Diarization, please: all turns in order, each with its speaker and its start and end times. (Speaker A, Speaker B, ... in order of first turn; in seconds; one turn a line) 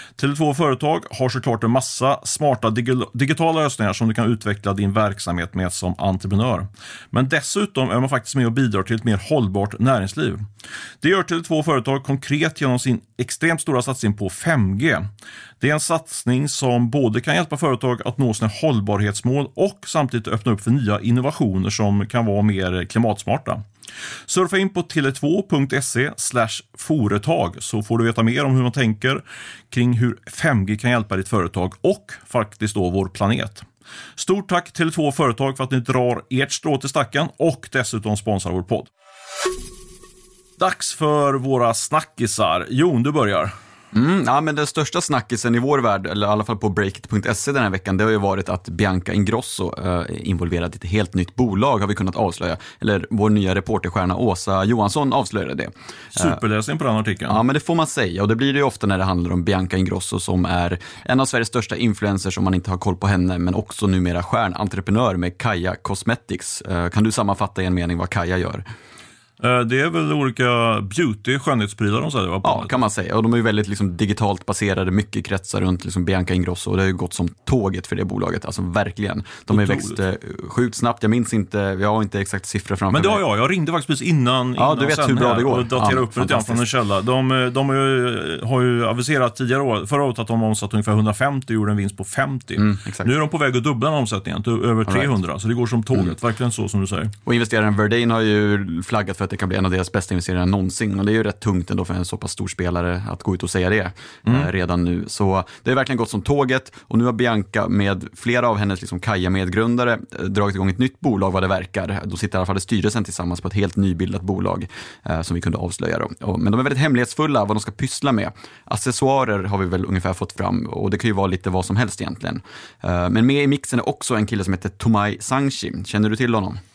Speaker A: 0.2-10.4
Speaker A: 11.0-15.1
Speaker A: 15.6-23.6
Speaker A: 24.3-38.9
Speaker A: 40.6-43.5
Speaker B: 43.9-56.4
Speaker A: 56.1-57.4
Speaker B: 57.3-68.6
Speaker A: 69.4-72.7
Speaker B: 72.4-83.2
Speaker A: 79.5-80.0
Speaker A: 82.9-97.1
Speaker B: 84.6-86.7
Speaker B: 92.6-93.1
Speaker B: 97.3-126.6